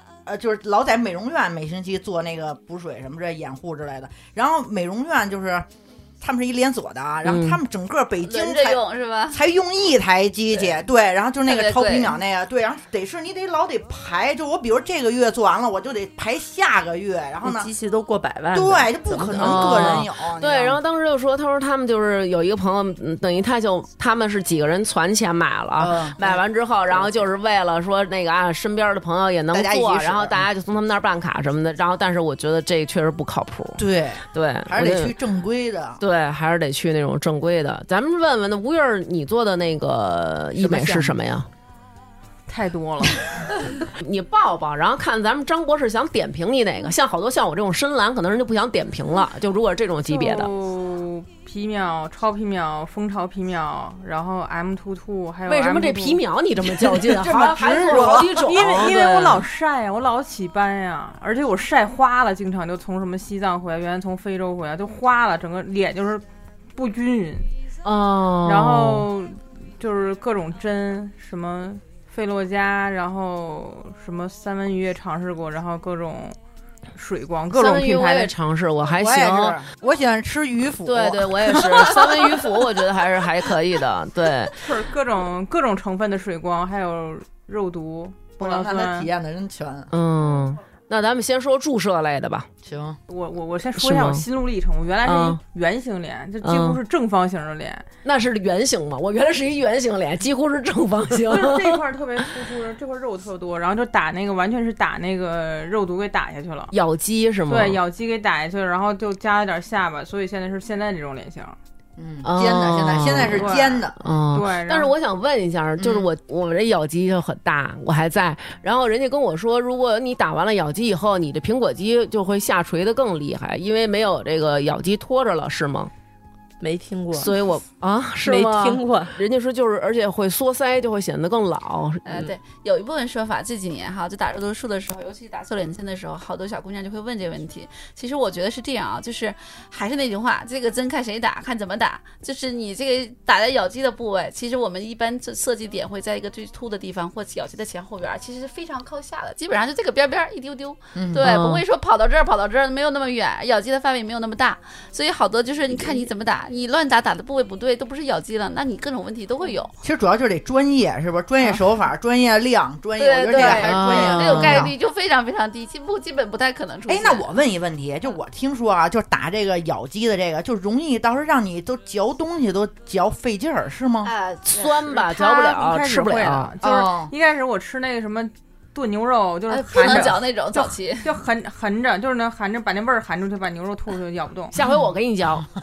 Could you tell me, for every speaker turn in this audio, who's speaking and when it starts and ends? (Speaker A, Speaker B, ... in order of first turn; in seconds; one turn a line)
Speaker A: 0.2-5.7
Speaker A: 6.2-17.7
Speaker B: 7.2-7.6
Speaker C: 8.2-9.4
Speaker C: 11.4-12.2
Speaker D: 17.4-20.0
Speaker A: 18.5-20.8
Speaker B: 19.3-35.1
Speaker A: 25.8-26.4
Speaker A: 29.5-30.4
Speaker A: 33.8-36.0
Speaker B: 36.0-41.5
Speaker A: 40.6-41.1
Speaker E: 42.5-43.2
Speaker B: 44.0-50.5
Speaker E: 50.1-56.2
Speaker B: 55.5-59.5
Speaker A: 56.8-58.4
Speaker E: 57.3-66.2
Speaker E: 66.7-67.5
Speaker B: 67.8-69.1
Speaker E: 68.4-76.3
Speaker E: 76.9-78.3
Speaker B: 77.5-79.6
Speaker A: 78.9-81.9
Speaker B: 80.8-84.7
Speaker E: 84.6-89.1
Speaker A: 88.4-89.9
Speaker B: 89.9-92.5
Speaker A: 92.6-93.0
Speaker E: 93.1-97.8
Speaker B: 93.8-94.2
Speaker B: 95.0-95.4
Speaker B: 96.4-96.8
Speaker B: 98.0-101.8
Speaker E: 101.2-106.7
Speaker B: 106.7-107.8
Speaker E: 107.5-111.6
Speaker A: 112.0-114.0
Speaker B: 112.2-125.9
Speaker E: 113.2-114.9
Speaker A: 115.8-116.1
Speaker D: 126.6-127.3
Speaker B: 127.1-132.1
Speaker D: 128.2-129.2
Speaker C: 132.0-159.7
Speaker A: 150.9-151.3
Speaker B: 151.2-151.6
Speaker A: 155.8-156.1
Speaker A: 159.8-164.7
Speaker C: 163.0-167.3
Speaker B: 163.3-164.7
Speaker A: 166.9-174.1
Speaker C: 174.0-175.0
Speaker B: 174.4-176.5
Speaker E: 174.9-184.5
Speaker A: 176.6-177.1
Speaker C: 179.5-181.1
Speaker B: 184.5-185.5